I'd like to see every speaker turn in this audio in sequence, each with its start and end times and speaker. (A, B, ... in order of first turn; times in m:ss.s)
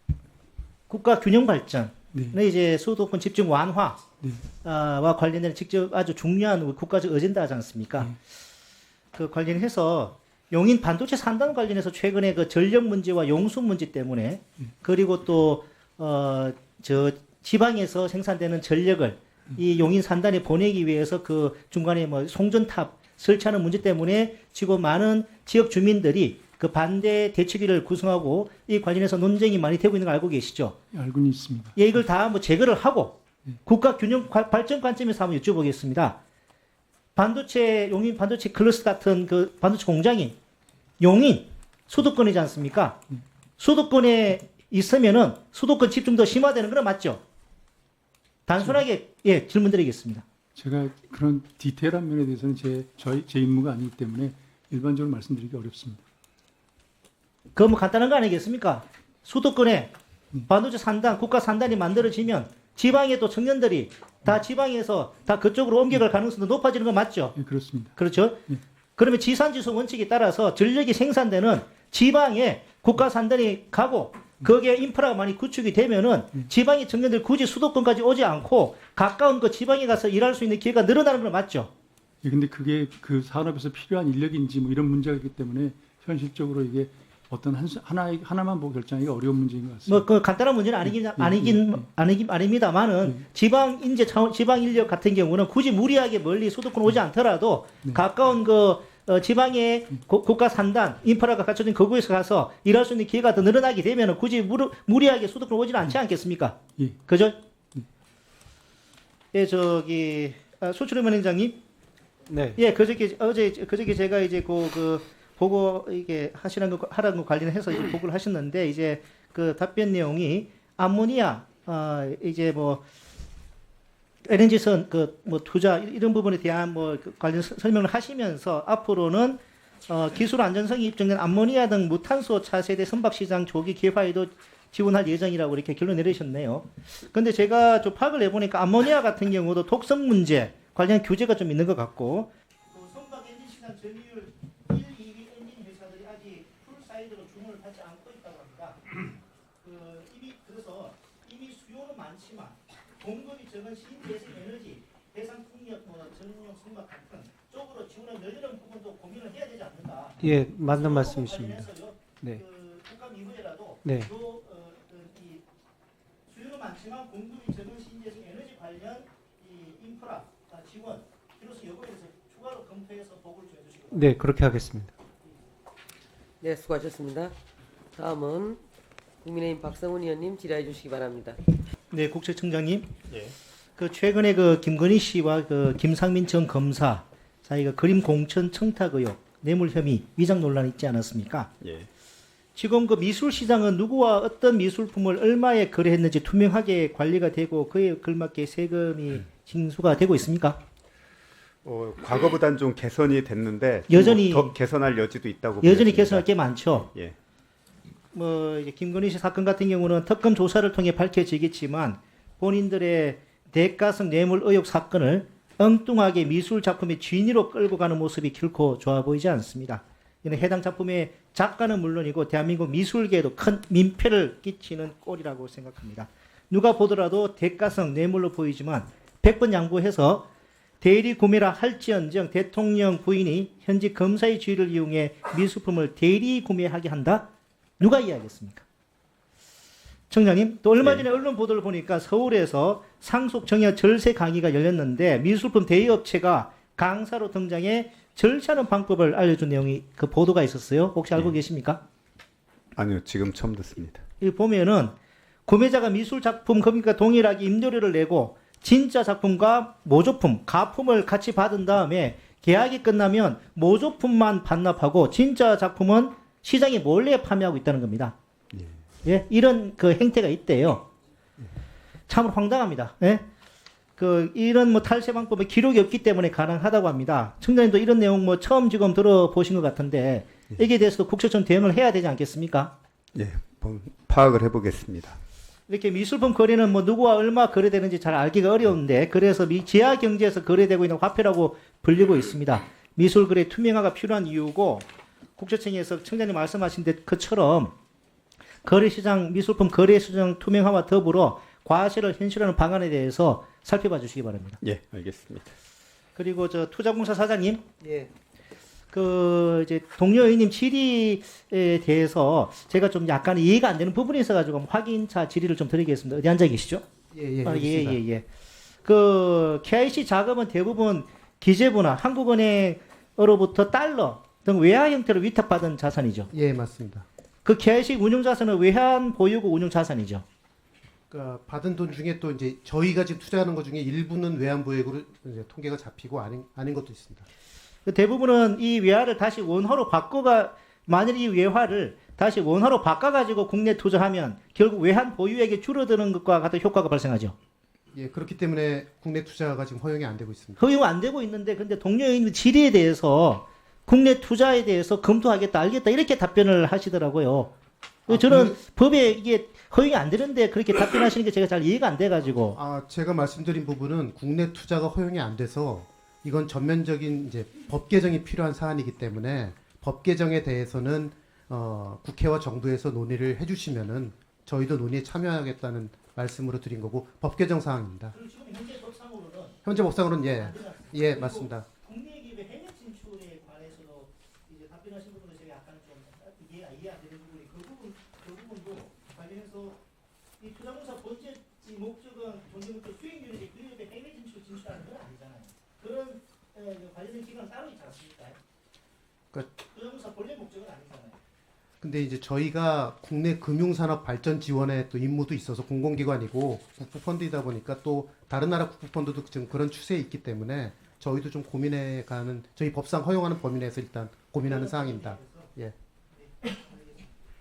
0:00.9-0:04.0 A
0:04.6-0:08.2 A
0:09.1-0:30.8 A
0:30.9-0:31.8 B
0:31.8-0:36.2 A
0:37.1-0:40.4 A
0:41.0-0:43.0 A
0:43.6-0:47.2 A
0:48.5-0:50.2 A
0:50.6-0:56.0 B
0:57.5-0:59.9 A
1:00.5-1:07.4 A
1:07.4-1:07.9 B
1:08.0-1:08.4 A
1:09.0-1:21.7 A
1:22.2-1:30.1 B
1:29.9-1:47.4 A
1:31.0-1:31.8 B
1:49.3-1:51.6 A
1:52.3-1:52.6 C
1:52.6-2:02.8 A
2:04.2-2:28.8 A
2:29.6-2:45.4 A
2:40.2-2:41.7 C
2:43.8-2:44.1 C
2:46.3-2:54.1 A
2:53.9-2:54.9 C
2:56.4-2:57.4 D
2:58.0-2:58.6 D
2:59.2-3:01.4 D
3:01.9-3:02.9 A
3:03.1-3:03.4 E
3:03.8-3:11.5 A
3:11.6-3:11.9 E
3:12.5-3:20.6 A
3:21.6-3:26.2 E
3:23.9-3:24.5 A
3:25.6-3:26.9 A
3:28.1-3:50.2 A
3:50.8-3:57.3 A
3:57.8-3:58.6 A
4:00.1-4:11.8 A
4:12.8-4:14.0 E
4:14.2-4:15.0 A
4:15.5-4:28.2 A
4:29.0-4:30.9 A
4:32.1-4:33.2 A
4:34.0-4:42.7 A
4:43.1-4:45.2 E
4:45.7-4:57.7 A
4:58.6-5:04.6 A
5:04.6-5:05.5 E
5:06.2-5:08.0 A
5:08.9-5:16.8 A
5:17.1-5:18.0 F
5:17.4-5:18.2 A
5:18.8-5:26.3 A
5:26.3-5:27.1 F
5:27.4-5:30.2 A
5:31.1-5:37.3 F
5:37.9-5:47.4 A
5:47.9-5:50.6 F
5:50.6-5:57.5 A
5:58.1-6:02.6 A
5:58.1-5:58.6 F
6:02.6-6:18.1 F
6:18.1-6:19.6 A
6:19.6-6:21.7 F
6:20.2-6:29.8 A
6:30.4-6:38.4 A
6:39.4-6:41.1 A
6:41.8-6:55.8 F
6:54.6-6:55.4 A